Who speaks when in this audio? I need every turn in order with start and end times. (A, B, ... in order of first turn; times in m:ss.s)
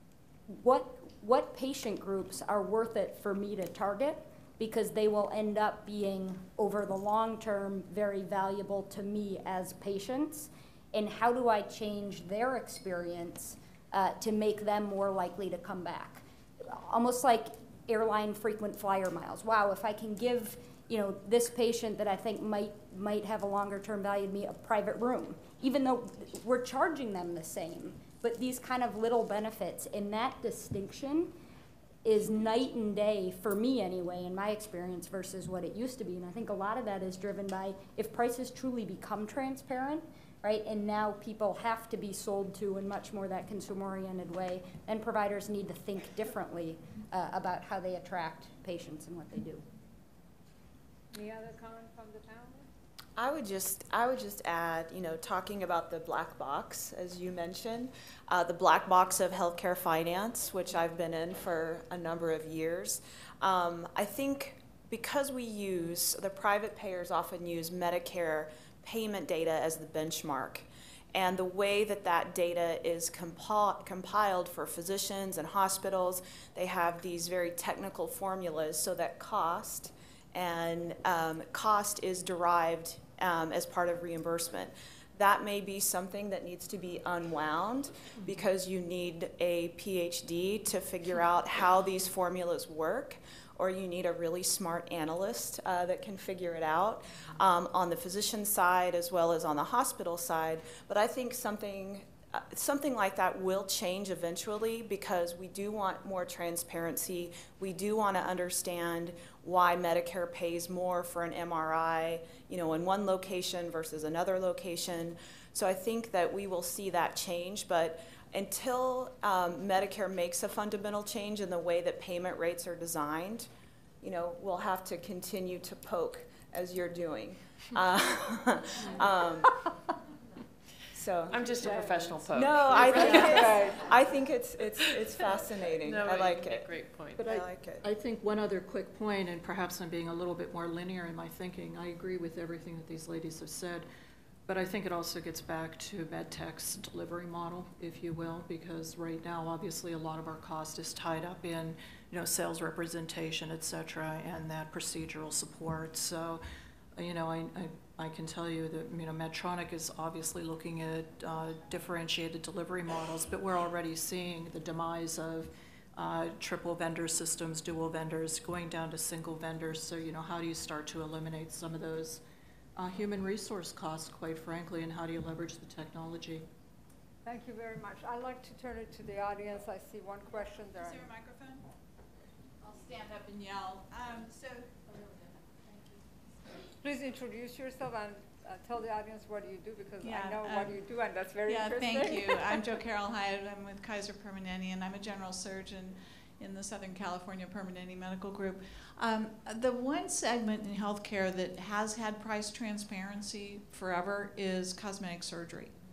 0:00.5-0:31.3 A
0:32.0-0:49.6 A
0:51.1-0:52.7 B
0:53.2-2:03.5 C
2:04.0-2:09.5 C
2:10.9-2:16.7 C
2:11.3-2:13.7 D
2:11.6-2:11.9 B
2:12.9-2:13.8 B
2:14.8-2:17.2 D
2:17.2-2:17.8 C
2:17.2-2:23.9 E
2:24.5-2:36.4 E
2:37.0-2:52.2 E
2:52.8-2:56.4 E
2:57.2-3:01.1 B
3:00.9-3:01.6 F
3:02.6-3:05.0 F
3:06.8-3:12.6 B
3:10.0-3:10.8 F
3:11.5-3:25.8 F